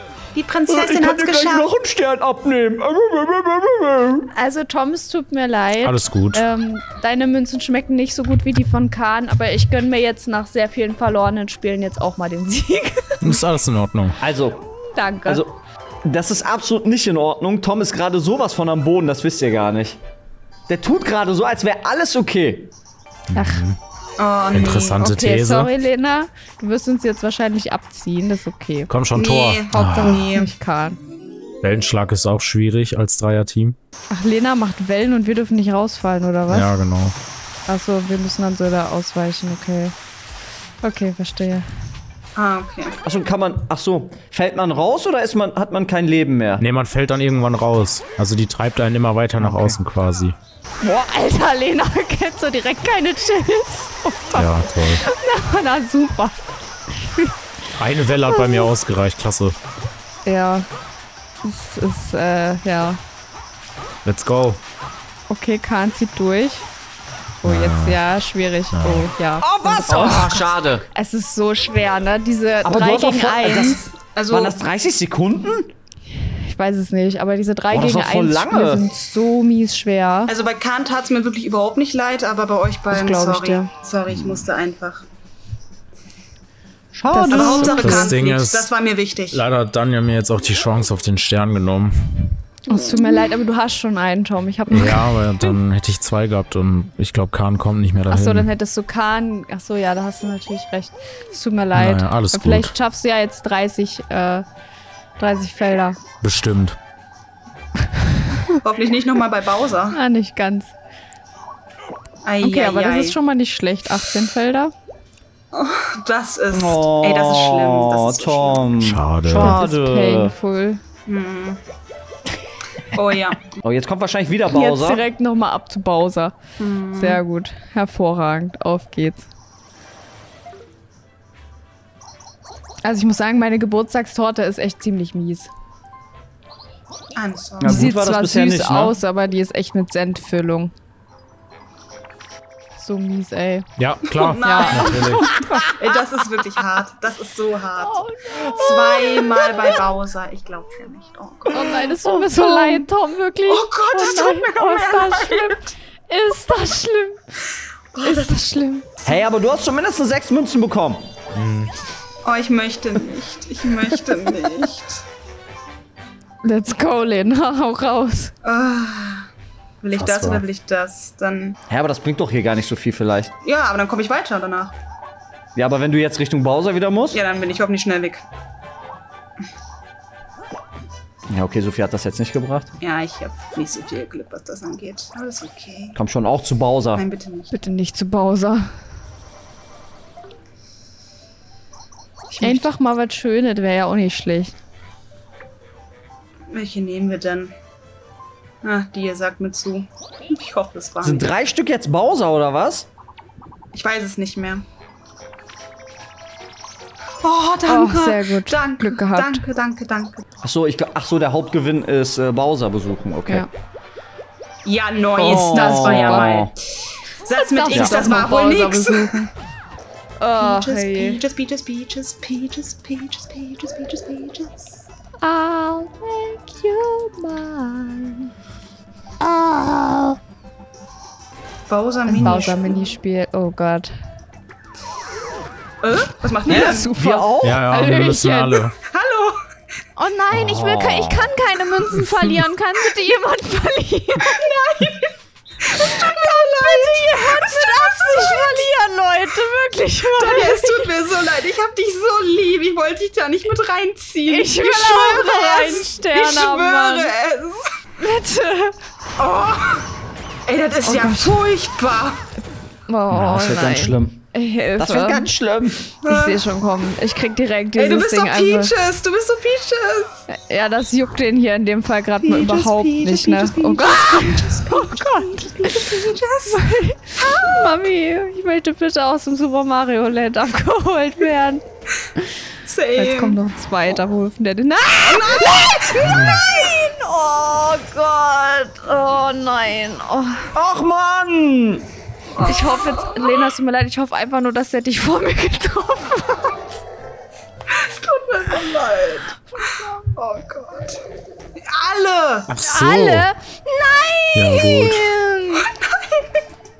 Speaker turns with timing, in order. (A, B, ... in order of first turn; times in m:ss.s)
0:00.3-0:01.7 A
0:00.7-0:04.3 B
0:04.3-0:13.4 C
0:05.8-0:06.4 D
0:13.2-0:14.2 D
0:14.2-0:14.6 B
0:14.9-0:15.4 C
0:15.2-0:15.5 B
0:16.0-0:20.0 B
0:20.7-0:22.7 B
0:23.3-0:23.8 D
0:23.3-0:23.6 C
0:24.2-0:25.0 A
0:24.5-0:25.7 D
0:25.0-0:28.9 C
0:28.9-0:30.2 D
0:29.1-0:30.5 A
0:29.7-0:31.0 C
0:31.6-0:33.8 D
0:34.1-0:36.7 C
0:36.5-0:37.1 D
0:37.7-0:39.9 C
0:40.8-0:41.6 C
0:42.4-0:43.0 A
0:43.0-0:46.6 B
0:46.6-0:50.4 D
0:49.4-0:49.8 B
0:50.8-0:57.3 C
0:54.3-0:55.0 D
0:57.8-0:59.6 D
0:58.2-0:58.7 C
1:00.2-1:00.6 C
1:01.4-1:03.0 C
1:04.0-1:04.6 D
1:05.3-1:06.7 C
1:07.4-1:08.0 D
1:07.4-1:13.9 C
1:08.7-1:09.1 D
1:09.4-1:10.8 B
1:09.9-1:10.3 A
1:12.6-1:15.7 B
1:14.1-1:14.6 A
1:16.1-1:20.3 C
1:17.7-1:18.9 B
1:20.3-1:25.0 A
1:22.9-1:23.7 C
1:26.9-1:28.1 B
1:27.1-1:28.1 C
1:27.3-1:29.4 A
1:27.8-1:28.7 D
1:29.3-1:32.4 D
1:32.7-1:35.6 C
1:34.7-1:38.5 D
1:38.1-1:44.4 C
1:41.7-1:42.7 D
1:45.2-1:46.0 C
1:46.2-1:46.8 D
1:47.9-1:48.5 C
1:48.6-1:50.0 A
1:49.9-1:50.7 C
1:52.2-1:53.2 A
1:52.4-1:54.7 C
1:55.5-1:58.7 A
1:56.5-2:00.3 B
1:58.8-1:59.6 D
1:59.3-2:00.8 C
2:01.1-2:01.6 A
2:02.9-2:03.5 A
2:03.5-2:05.0 B
2:04.5-2:06.4 C
2:06.6-2:07.2 A
2:06.9-2:09.3 C
2:12.8-2:15.5 C
2:17.2-2:17.9 A
2:17.6-2:19.0 B
2:17.6-2:20.7 C
2:22.8-2:23.7 C
2:23.8-2:25.5 D
2:24.0-2:32.8 A
2:24.4-2:25.9 C
2:27.8-2:29.7 C
2:31.5-2:37.4 C
2:33.5-2:35.6 A
2:37.9-2:38.4 A
2:38.0-2:39.1 C
2:39.0-2:41.1 B
2:41.3-2:41.7 D
2:42.2-2:45.0 A
2:46.4-2:48.3 C
2:48.4-2:49.3 A
2:49.8-2:51.6 A
2:49.9-2:50.4 D
2:51.7-2:53.3 B
2:53.4-2:54.7 A
2:55.5-2:57.2 B
2:57.1-2:58.2 A
3:01.3-3:02.7 B
3:02.8-3:06.0 A
3:06.0-3:07.0 B
3:06.9-3:07.5 A
3:07.5-3:08.8 C
3:12.3-3:12.6 A
3:12.4-3:14.5 C
3:16.5-3:17.5 A
3:18.6-3:21.3 A
3:21.0-3:22.9 B
3:23.7-3:24.6 A
3:27.2-3:30.2 A
3:27.7-3:29.4 C
3:30.4-3:33.5 B
3:34.6-3:39.2 A
3:35.2-3:36.5 B
3:35.2-3:36.4 C
3:37.3-3:39.3 C
3:40.2-3:41.2 C
3:40.4-3:44.8 A
3:45.2-3:48.3 C
3:49.2-3:50.2 C
3:51.7-3:52.9 A
3:52.1-3:53.9 C
3:55.8-3:56.9 A
3:56.4-3:58.7 C
3:56.5-3:57.6 B
3:57.4-3:58.7 D
3:58.8-3:59.4 A
4:00.0-4:04.5 C
4:00.3-4:01.3 B
4:04.2-4:08.7 A
4:05.7-4:10.9 C
4:10.1-4:17.7 A
4:14.3-4:17.1 C
4:18.0-4:18.8 C
4:19.2-4:19.9 A
4:20.4-4:22.2 A
4:20.8-4:21.4 C
4:22.9-4:25.3 C
4:23.1-4:24.1 B
4:24.8-4:25.8 B
4:26.0-4:26.4 A
4:26.0-4:28.7 C
4:27.8-4:30.2 A
4:30.3-4:35.9 C
4:32.2-4:36.7 A
4:36.5-4:41.6 C
4:37.2-4:37.4 A
4:42.6-4:43.4 A
4:43.0-4:50.5 C
4:45.0-4:46.5 A
4:50.5-4:51.8 B
4:52.3-4:53.4 A
4:52.4-4:56.8 C
4:57.7-5:01.0 A
4:59.6-5:00.0 C
5:01.6-5:02.5 A
5:02.5-5:03.3 D
5:02.6-5:05.7 C
5:04.3-5:05.1 D
5:05.6-5:06.3 A